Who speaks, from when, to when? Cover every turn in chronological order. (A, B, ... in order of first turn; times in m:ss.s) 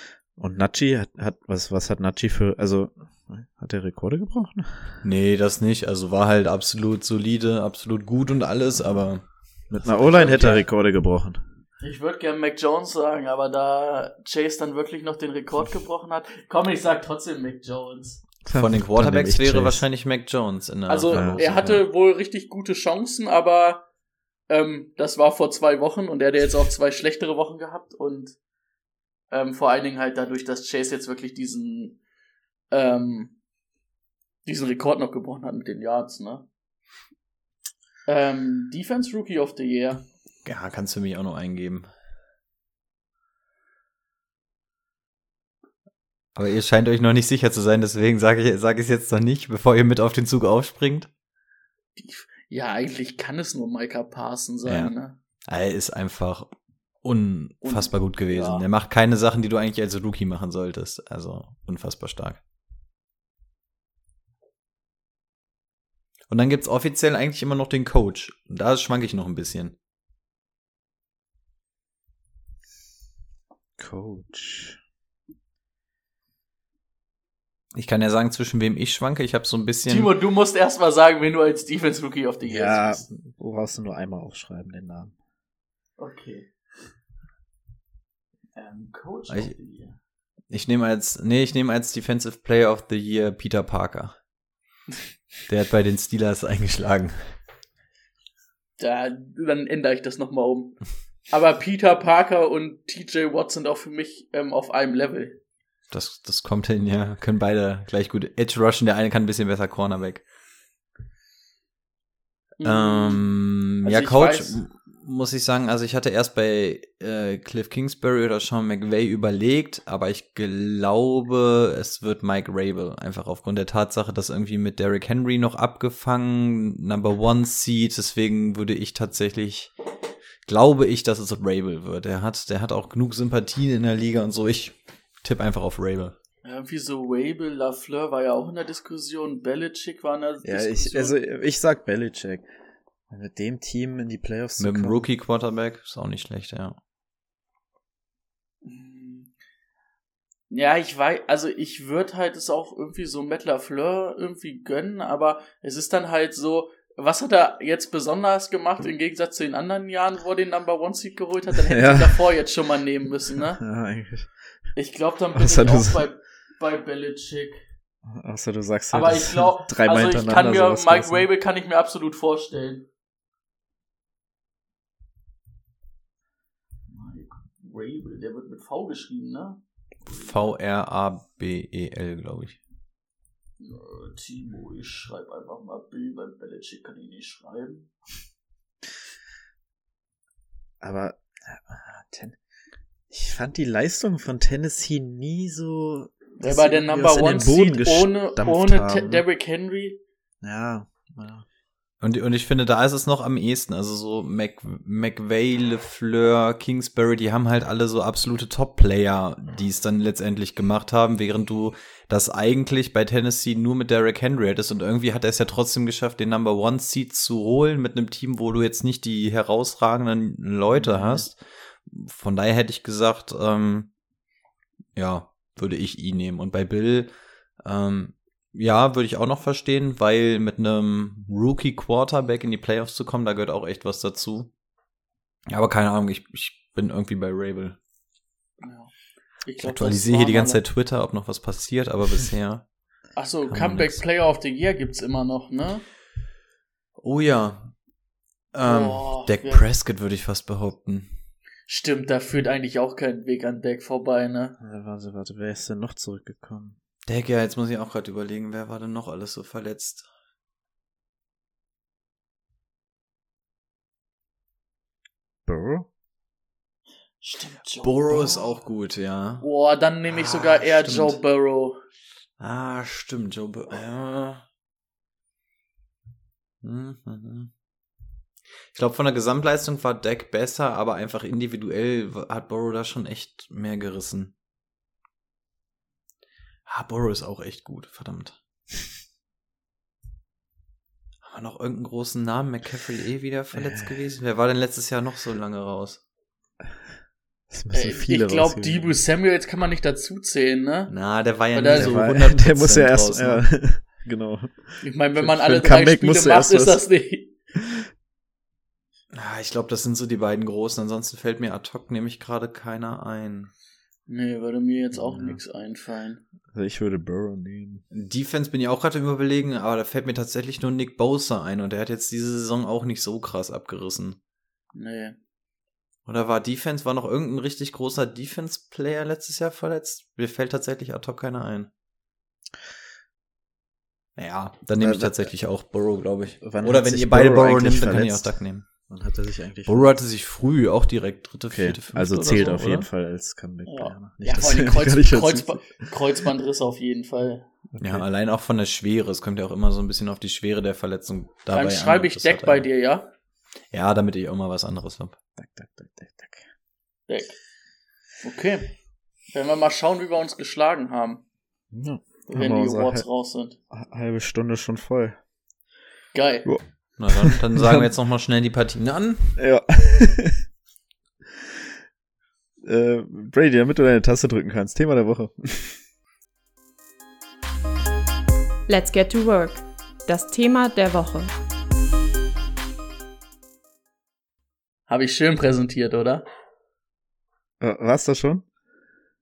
0:00.4-0:05.0 A
0:05.0-0:10.6 B
0:09.7-0:11.4 A
0:10.3-0:10.6 C
0:11.8-0:18.2 C
0:18.4-0:19.8 A
0:18.5-0:21.8 B
0:20.9-0:23.8 C
0:21.1-0:21.4 A
0:24.5-0:28.4 C
0:29.3-0:32.0 C
0:32.7-0:33.3 C
0:34.4-0:36.5 C
0:38.0-0:40.0 C
0:40.4-0:41.9 B
0:46.4-0:51.1 B
0:52.0-0:55.2 C
0:54.6-0:54.9 B
0:55.4-0:56.5 B
0:57.0-1:02.4 B
0:57.6-0:58.6 C
1:06.3-1:09.7 B
1:13.8-1:14.8 A
1:17.7-1:20.1 B
1:19.9-1:23.1 C
1:22.5-1:25.1 A
1:26.0-1:26.5 C
1:28.5-1:30.0 C
1:30.5-1:34.2 B
1:35.5-1:37.3 B
1:38.8-1:45.4 C
1:45.9-1:50.2 B
1:52.6-1:53.2 C
1:52.6-2:09.7 B
1:53.8-1:54.6 C
2:10.4-2:16.2 B
2:16.4-2:21.2 C
2:20.4-2:22.4 A
2:23.1-2:25.0 A
2:24.6-2:26.8 B
2:28.6-2:29.3 C
2:30.5-2:43.6 C
2:41.7-2:42.2 A
2:43.5-2:44.3 A
2:44.8-2:47.6 C
2:45.3-2:46.0 A
2:48.0-2:51.3 A
2:48.9-2:52.9 C
2:56.9-3:00.5 C
3:00.1-3:02.6 B
3:03.6-3:07.9 C
3:10.8-3:12.4 A
3:13.1-3:19.2 A
3:16.4-3:20.0 C
3:20.4-3:21.4 A
3:22.0-3:43.9 B
3:45.0-3:47.1 B
3:47.6-3:54.5 B
3:55.5-3:57.8 B
3:58.6-3:58.9 C
3:59.4-4:00.6 C
3:59.6-4:02.6 B
4:03.2-4:05.8 C
4:03.5-4:04.0 B
4:07.0-4:07.7 B
4:08.5-4:11.1 B
4:08.6-4:09.6 C
4:11.7-4:14.6 C
4:14.6-4:16.8 A
4:17.1-4:20.0 B
4:25.4-4:25.9 A
4:27.2-4:28.4 C
4:27.8-4:29.4 B
4:29.4-4:31.8 C
4:30.1-4:31.2 B
4:32.4-4:34.4 B
4:36.6-4:37.5 B
4:38.7-4:44.3 B
4:46.7-4:48.4 B
4:51.2-4:56.0 B
4:53.5-4:53.9 A
4:57.5-4:58.9 A
4:57.7-5:00.9 C
5:00.9-5:03.4 B
5:01.5-5:02.0 C
5:01.7-5:06.8 A
5:04.8-5:07.3 C
5:09.1-5:13.5 B
5:14.1-5:16.2 C
5:16.5-5:17.8 A
5:17.9-5:24.2 B
5:24.7-5:25.2 C
5:26.1-5:31.7 B
5:34.2-5:38.7 B
5:34.8-5:35.3 A
5:36.4-5:39.9 A
5:39.6-5:42.9 B
5:41.5-5:45.9 A
5:42.2-5:42.5 C
5:43.6-5:47.5 C
5:47.7-5:48.0 A
5:47.8-5:52.6 B
5:51.5-5:53.1 C
5:53.7-5:55.2 B
5:55.4-5:56.4 A
5:57.1-5:57.4 C
5:58.2-5:58.7 C
5:59.3-6:01.2 C
6:01.7-6:03.0 A
6:02.3-6:03.6 C
6:03.7-6:05.2 A
6:06.1-6:06.5 C
6:06.4-6:07.9 A
6:07.0-6:09.4 B
6:09.4-6:10.4 A
6:12.6-6:15.8 A
6:18.7-6:21.3 D
6:24.9-6:26.2 C
6:27.6-6:28.4 A